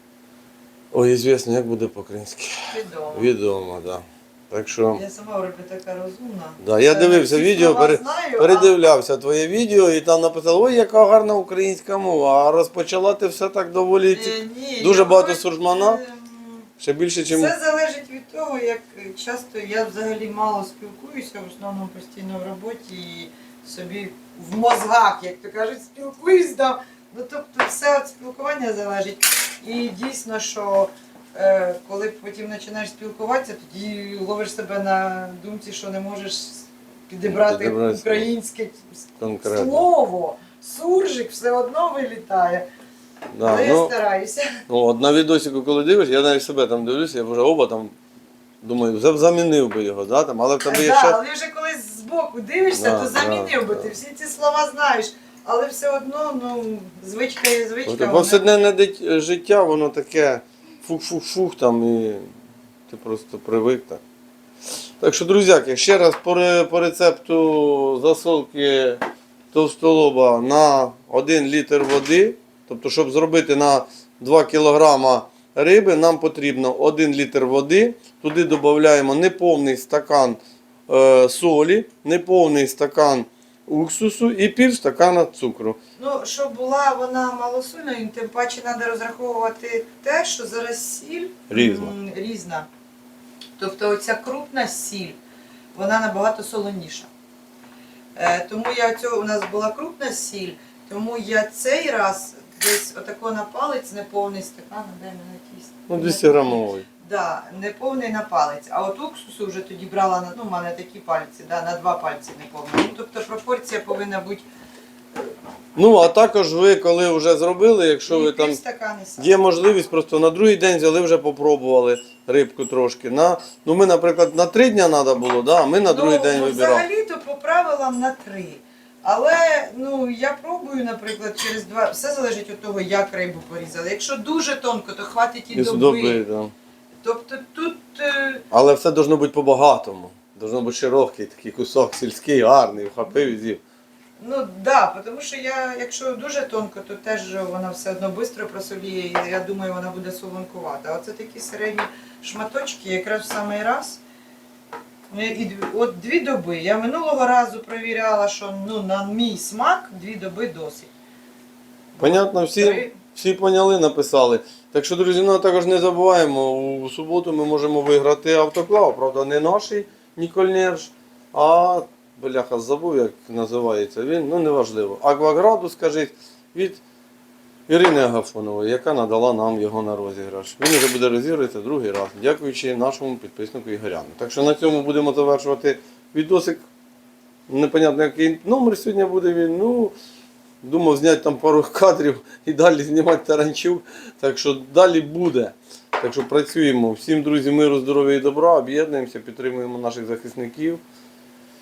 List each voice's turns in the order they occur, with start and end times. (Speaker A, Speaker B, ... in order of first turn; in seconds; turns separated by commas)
Speaker A: 0.9-5.0, Speaker B: 2.7-3.3, Speaker B: 4.9-8.7, Speaker A: 6.6-16.0, Speaker B: 14.1-16.7, Speaker A: 16.8-17.5, Speaker B: 17.3-42.7, Speaker A: 37.2-38.3, Speaker A: 39.2-39.9, Speaker A: 43.3-43.9, Speaker B: 43.4-44.6, Speaker A: 44.7-47.9, Speaker A: 48.6-51.2, Speaker B: 50.6-58.5, Speaker A: 52.8-53.9, Speaker A: 57.9-62.3, Speaker A: 62.9-64.0, Speaker A: 65.0-85.8, Speaker B: 86.0-92.7, Speaker A: 91.5-91.9, Speaker B: 93.6-95.2, Speaker B: 95.8-97.1, Speaker B: 98.2-114.5, Speaker A: 105.9-106.8, Speaker A: 115.8-118.6, Speaker B: 118.1-119.3, Speaker A: 119.2-126.8, Speaker B: 125.9-136.2, Speaker A: 135.5-136.5, Speaker B: 137.0-138.4, Speaker A: 138.5-143.6, Speaker B: 144.2-154.0, Speaker B: 155.1-160.9, Speaker B: 161.9-162.9, Speaker A: 162.0-176.8, Speaker A: 177.7-186.6, Speaker A: 187.5-189.9, Speaker A: 190.6-200.8